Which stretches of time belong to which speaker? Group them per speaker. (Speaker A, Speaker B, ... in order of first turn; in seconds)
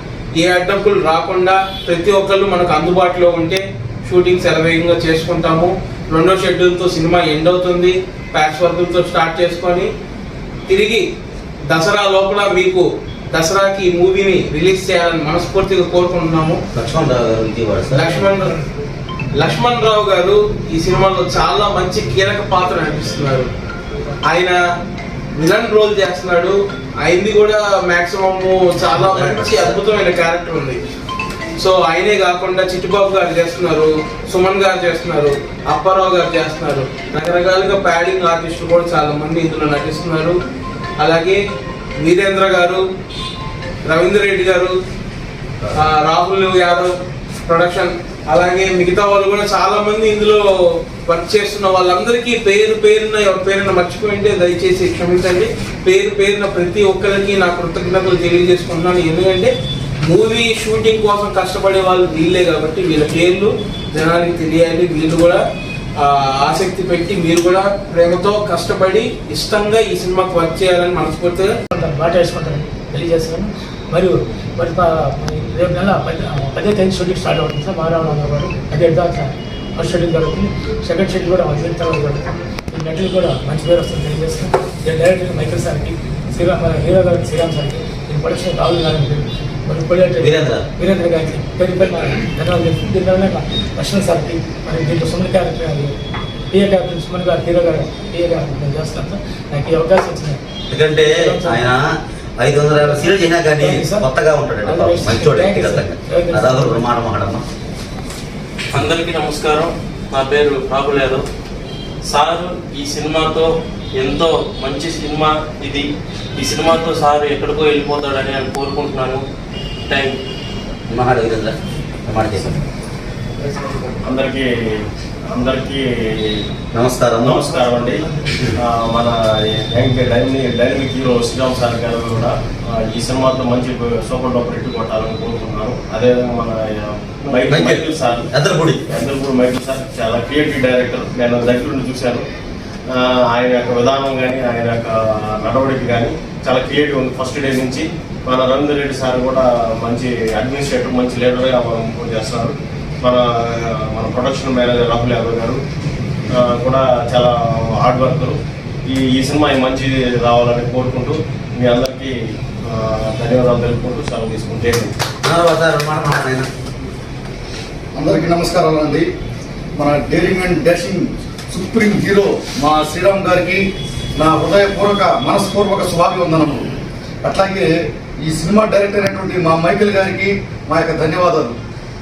Speaker A: 0.4-9.9, 10.7-11.1, 11.7-16.6, 17.9-18.6, 19.4-23.5, 24.3-24.6, 25.4-30.8, 31.6-40.4, 41.0-41.4, 42.0-42.8, 43.9-44.8, 45.8-46.9, 47.5-50.4, 51.1-59.5, 60.1-65.4, 66.0-71.5
Speaker B: 16.7-18.3, 28.8-29.8, 90.2-90.7, 100.7-101.9, 102.4-107.4, 120.9-121.5, 122.1-122.5, 126.7-127.7, 128.2-128.6, 137.5-138.8, 165.2-166.5
Speaker C: 71.7-95.9, 96.5-100.4, 101.0-101.7, 103.6-104.1, 104.6-106.8
Speaker D: 108.7-111.2, 112.0-119.2, 119.9-120.2
Speaker E: 124.0-124.5, 125.3-126.4, 127.2-128.1, 128.7-138.3, 138.9-142.3, 142.9-155.6, 156.4-162.2, 162.7-164.9
Speaker F: 168.0-169.1, 169.8-173.6, 174.2-176.7, 177.2-177.7, 178.2-181.6